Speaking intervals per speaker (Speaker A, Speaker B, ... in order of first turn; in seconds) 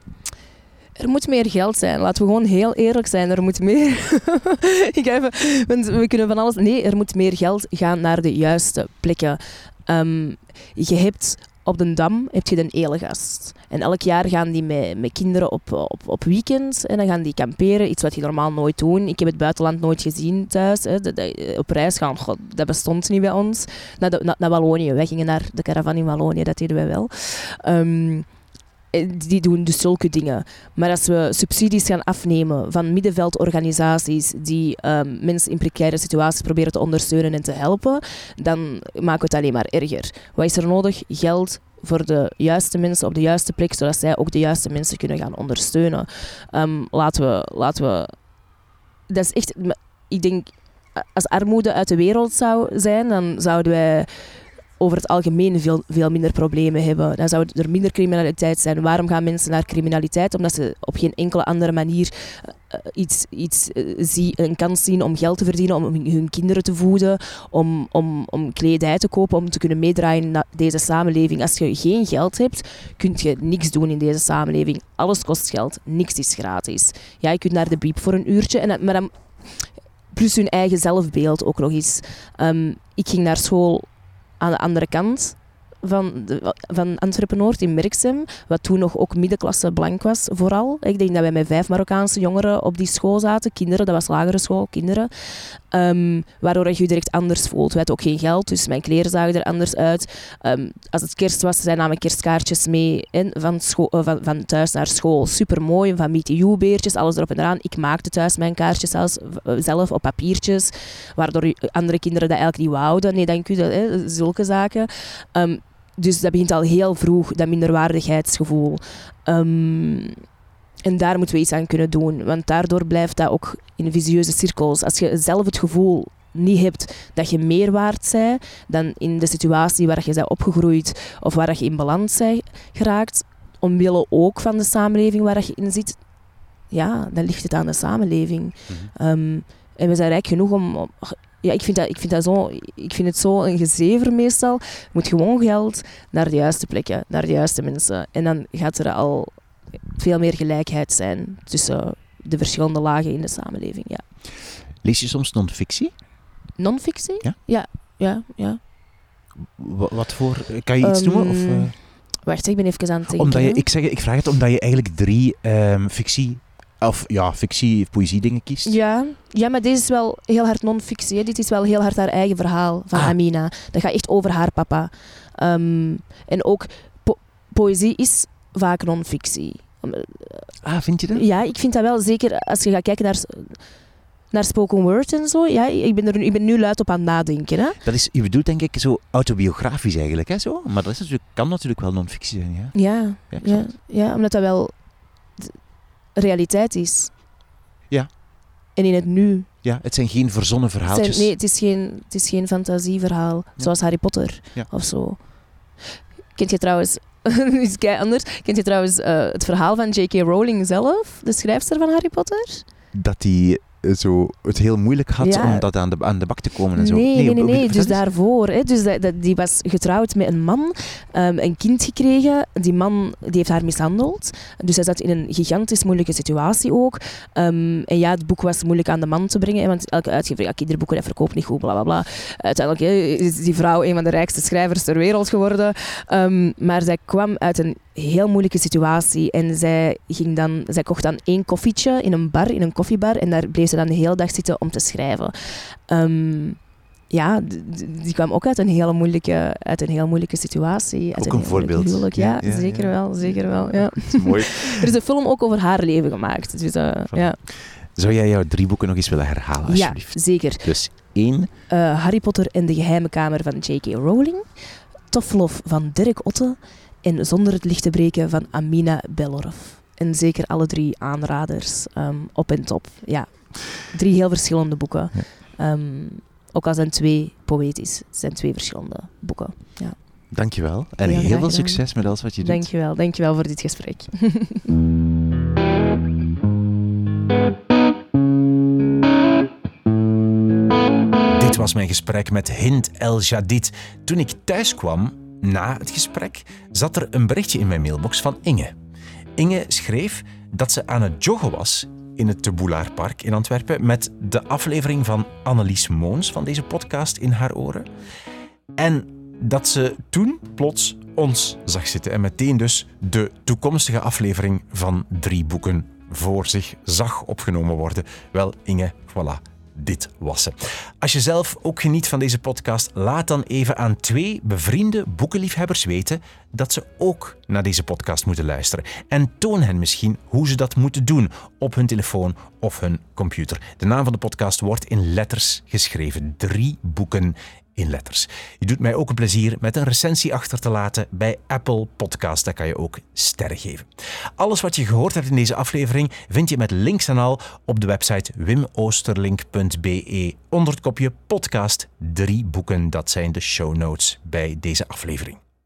Speaker A: 1.0-28.3, 28.9-48.1, 49.1-54.1, 54.8-79.1, 80.1-83.9, 84.4-95.1, 95.7-120.2, 120.8-136.0, 136.7-149.3, 149.9-154.0, 156.6-158.6, 160.8-163.6, 168.6-180.5, 181.1-183.6, 184.3-187.8, 192.7-194.7, 196.1-197.1, 198.7-199.5, 200.9-205.2, 206.4-212.6, 215.2-215.7, 216.8-245.3, 245.9-246.6, 247.1-257.4, 259.7-260.7, 261.7-264.4, 265.1-280.0, 281.0-281.8, 282.4-284.7
Speaker B: 154.8-155.9, 159.4-161.7, 163.1-168.7, 180.6-181.2, 187.8-192.8, 193.3-193.7, 199.6-201.3, 212.9-218.0, 251.2-254.9, 257.1-261.5, 280.3-282.6, 291.3-298.7, 299.4-307.9, 308.8-355.4